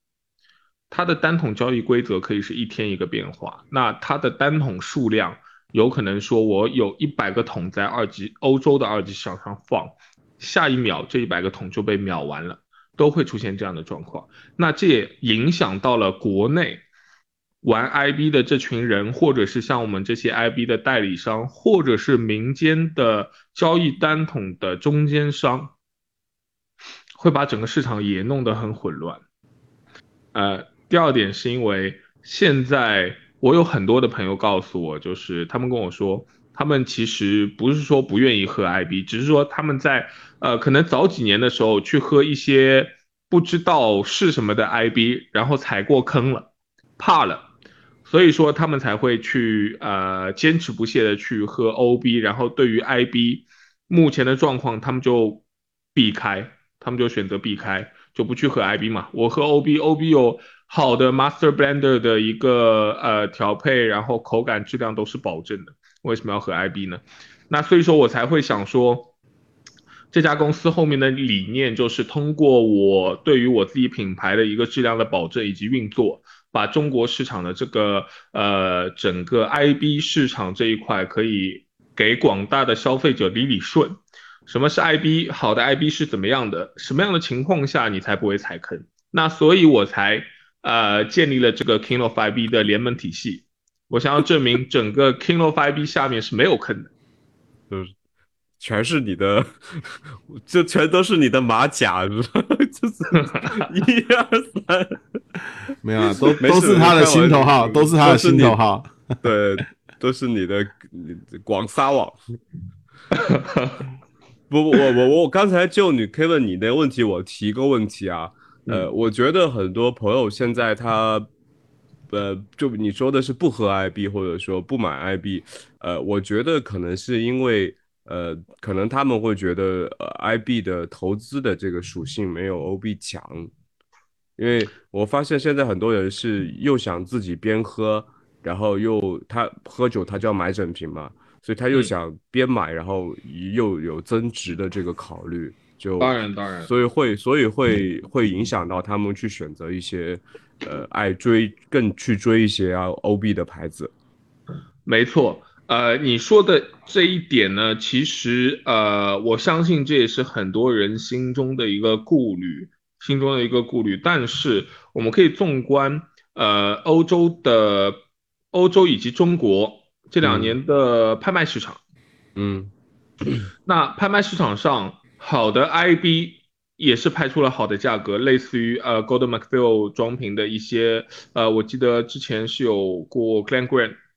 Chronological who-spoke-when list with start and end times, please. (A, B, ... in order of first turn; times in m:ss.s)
0:00.9-0:16.8 A
0:17.6-0:25.7 A
0:27.2-0:29.2 A
0:30.3-0:47.5 A
0:48.0-0:55.4 A
0:55.9-1:09.1 A
1:10.1-1:36.9 A
1:38.6-1:45.0 B
1:43.3-1:43.6 A
1:45.8-1:49.0 C
1:46.2-1:48.6 B
1:49.2-1:52.2 B
1:53.1-1:53.8 A
1:54.5-2:01.3 B
2:02.1-2:13.5 B
2:14.4-2:33.9 B
2:26.0-2:26.7 A
2:34.8-2:48.0 A
2:48.5-2:51.8 A
2:50.2-2:50.6 B
2:52.4-2:52.7 B
2:53.6-3:04.0 A